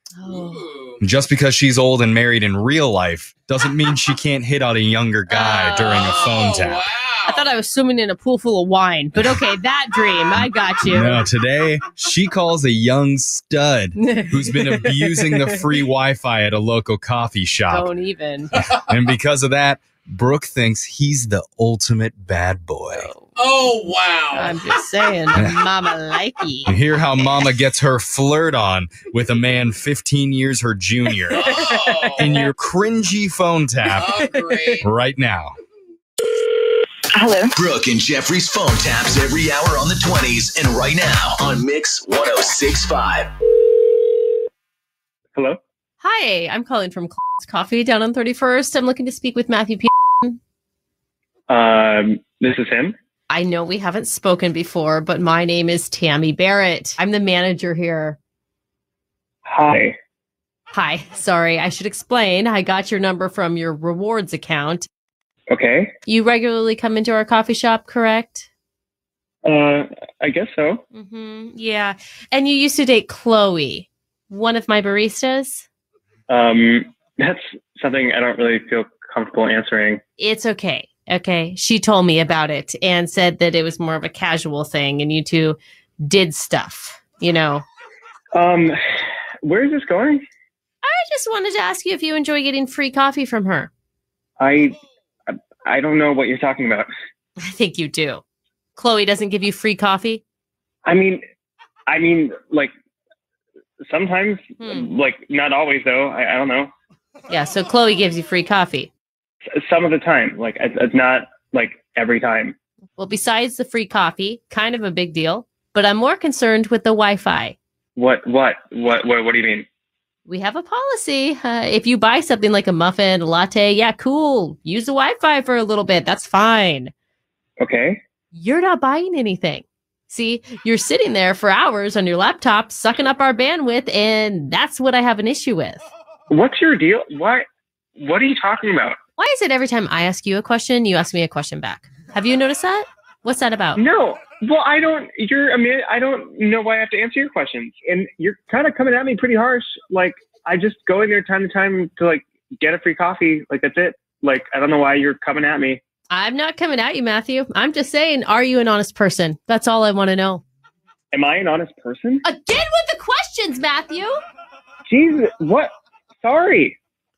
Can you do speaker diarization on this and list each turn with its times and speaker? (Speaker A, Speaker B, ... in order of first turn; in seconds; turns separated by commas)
Speaker A: 0.2-0.7, Speaker B: 0.3-0.9, Speaker C: 1.0-6.9, Speaker A: 5.4-6.1, Speaker B: 5.4-7.5, Speaker A: 7.3-11.2, Speaker C: 10.8-17.9, Speaker A: 14.0-15.6, Speaker A: 17.7-18.5, Speaker C: 18.6-23.1, Speaker A: 22.9-23.3, Speaker B: 23.4-24.6, Speaker A: 24.3-26.7, Speaker C: 25.3-25.6, Speaker C: 26.7-31.6, Speaker B: 31.4-32.3, Speaker C: 32.2-34.2, Speaker B: 33.9-34.9, Speaker A: 34.5-34.8, Speaker C: 34.8-35.5, Speaker D: 37.5-43.3, Speaker A: 46.0-50.4, Speaker E: 51.5-52.9, Speaker A: 53.3-58.2, Speaker E: 59.5-59.9, Speaker A: 60.7-64.9, Speaker E: 65.5-65.9, Speaker A: 66.1-68.5, Speaker E: 69.4-70.8, Speaker A: 70.9-75.7, Speaker E: 76.3-80.0, Speaker A: 80.2-87.6, Speaker E: 88.3-88.8, Speaker E: 89.4-90.2, Speaker A: 90.8-93.7, Speaker E: 94.4-94.8, Speaker E: 95.3-96.9, Speaker A: 97.4-98.2, Speaker A: 98.8-100.2, Speaker E: 100.8-101.2, Speaker E: 101.9-102.7, Speaker E: 103.8-106.7, Speaker A: 104.6-104.9, Speaker A: 107.3-108.9, Speaker E: 109.5-112.5, Speaker A: 113.0-117.5, Speaker E: 118.0-119.7, Speaker A: 120.2-126.9, Speaker E: 127.6-128.0, Speaker A: 128.3-135.9, Speaker E: 136.3-137.4, Speaker E: 138.0-138.9, Speaker A: 139.2-143.8, Speaker E: 143.8-155.8, Speaker A: 156.1-160.4, Speaker E: 161.1-162.2, Speaker A: 162.2-164.2, Speaker E: 164.9-166.8